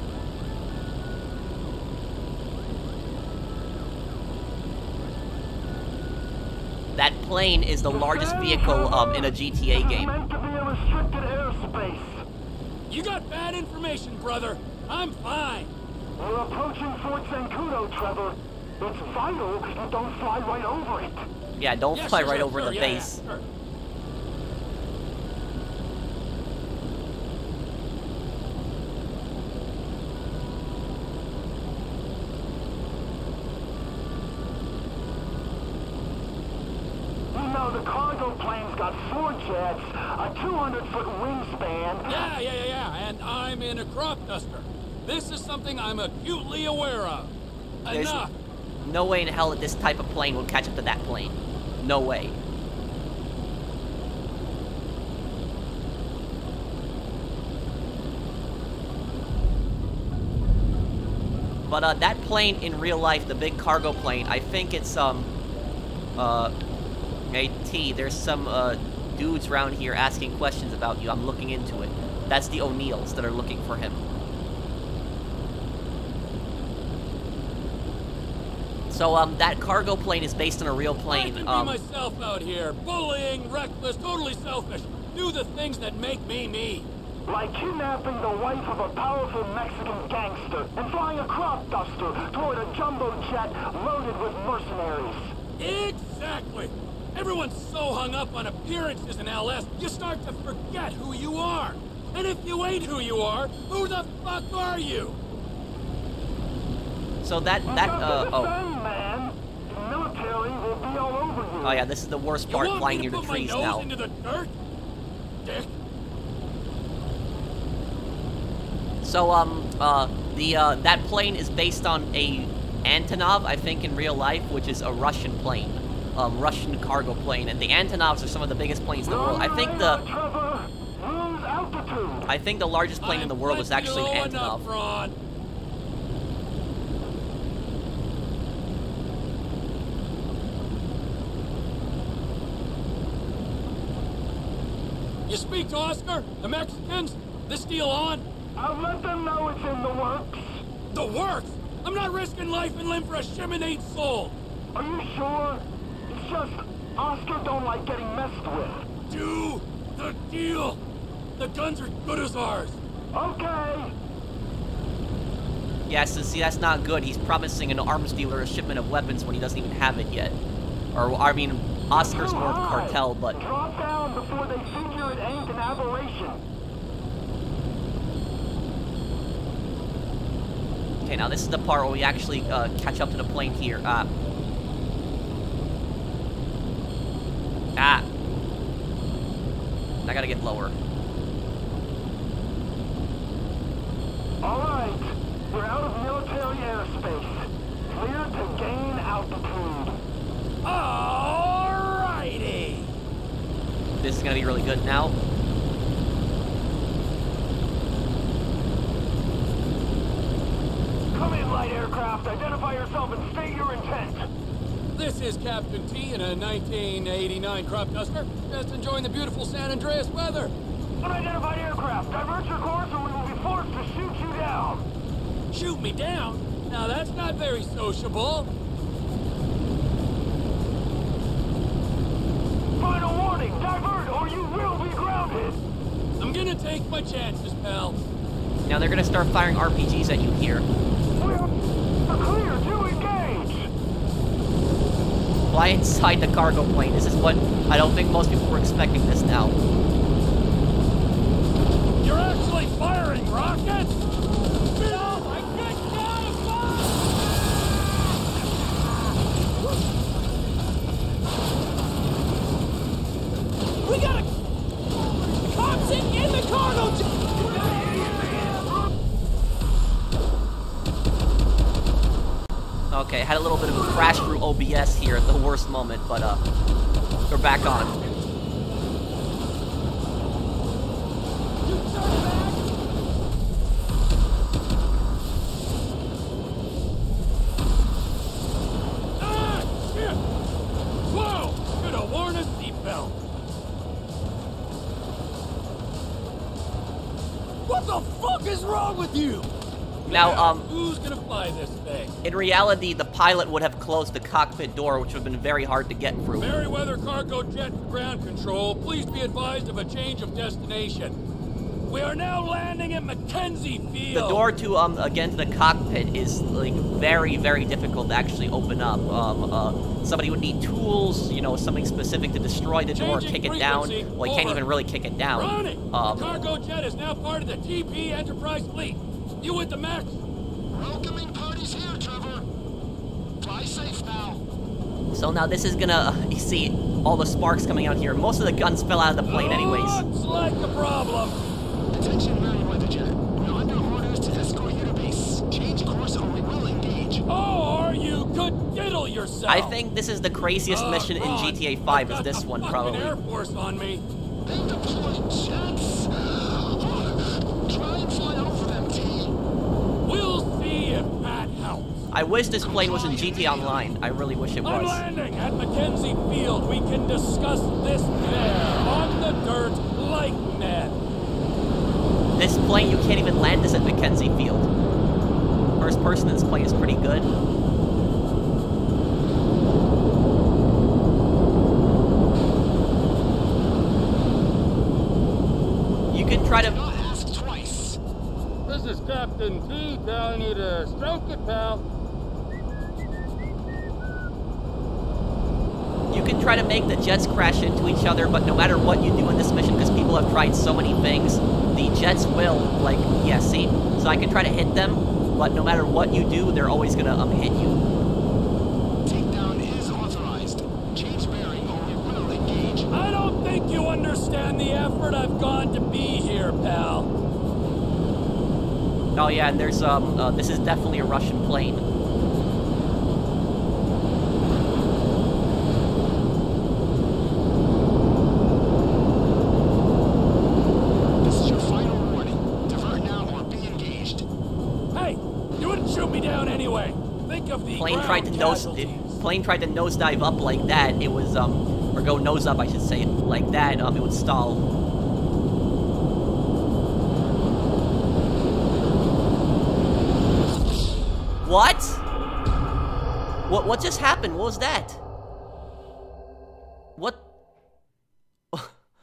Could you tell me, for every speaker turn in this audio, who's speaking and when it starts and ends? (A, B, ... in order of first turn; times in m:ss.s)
0:06.9-0:10.1 A
0:07.9-0:12.2 B
0:12.9-0:15.7 C
0:16.2-0:21.2 B
0:21.6-0:23.2 A
0:21.9-0:23.4 C
0:37.3-0:42.3 B
0:42.1-0:47.3 C
0:47.8-0:48.3 C
0:47.9-0:48.2 A
0:48.8-0:52.4 A
1:01.6-1:05.3 A
1:06.2-1:06.5 A
1:07.3-1:14.0 A
1:18.9-1:21.8 A
1:21.1-1:26.9 C
1:27.2-1:35.3 B
1:35.6-1:45.2 C
1:47.2-1:48.5 A
1:47.7-1:51.8 B
1:51.6-1:53.9 A
1:52.5-1:54.5 C
1:55.4-1:55.7 C
1:59.0-2:10.0 A
2:09.0-2:12.2 B
2:12.3-2:14.6 A
2:13.0-2:15.2 C
2:25.3-2:28.2 C
2:28.6-2:30.6 B
2:30.9-2:34.4 C
2:34.7-2:38.9 B
2:39.1-2:40.8 C
2:41.4-2:42.8 C
2:43.1-2:43.9 B
2:45.9-2:50.4 A
2:50.9-2:53.4 A
2:51.9-2:56.4 B
3:01.0-3:04.1 A
3:07.8-3:08.0 A
3:10.0-3:10.8 A
3:14.4-3:20.0 B
3:20.6-3:22.9 C
3:24.0-3:25.2 A
3:31.1-3:34.3 B
3:34.9-3:40.5 C
3:41.0-3:44.8 B
3:45.5-3:48.5 C
3:52.8-3:55.6 B
3:56.2-3:58.0 C
3:58.6-4:00.7 A
4:01.1-4:01.6 B
4:02.1-4:03.7 B
4:05.5-4:09.6 A
4:12.0-4:13.9 C
4:14.6-4:17.0 C
4:23.9-4:24.2 C
4:25.4-4:28.6 C
4:32.9-4:36.4 A
4:37.3-4:38.0 A
4:41.6-4:42.6 C
4:49.2-4:50.2 C
4:51.1-4:53.2 C
4:57.6-4:59.5 C
5:00.0-5:02.2 C
5:00.1-5:00.6 A
5:02.2-5:06.5 A
5:06.4-5:11.2 C
5:11.9-5:14.4 C
5:14.1-5:26.3 A
5:22.9-5:24.6 C
5:25.3-5:30.2 C
5:30.7-5:32.5 D
5:33.4-5:34.4 D
5:35.1-5:40.0 A
5:39.2-5:41.4 C
5:41.9-5:47.2 D
5:47.3-5:49.8 C
5:49.5-5:53.1 A
5:50.7-5:54.0 C
5:54.4-5:59.3 D
6:00.0-6:02.1 C
6:02.1-6:05.0 A
6:02.6-6:04.0 D
6:04.6-6:11.0 C
6:12.3-6:14.7 A
6:15.8-6:17.3 A
6:26.1-6:26.8 A
6:26.6-6:28.0 D
6:28.7-6:31.8 E
6:36.1-6:47.8 A
6:49.0-6:52.9 D
6:52.9-6:57.1 C
6:59.1-7:01.8 A
7:11.2-7:14.2 D
7:14.9-7:19.2 C
7:17.8-7:24.6 A
7:31.4-7:32.0 A
7:33.5-7:35.0 A
7:37.0-7:37.2 A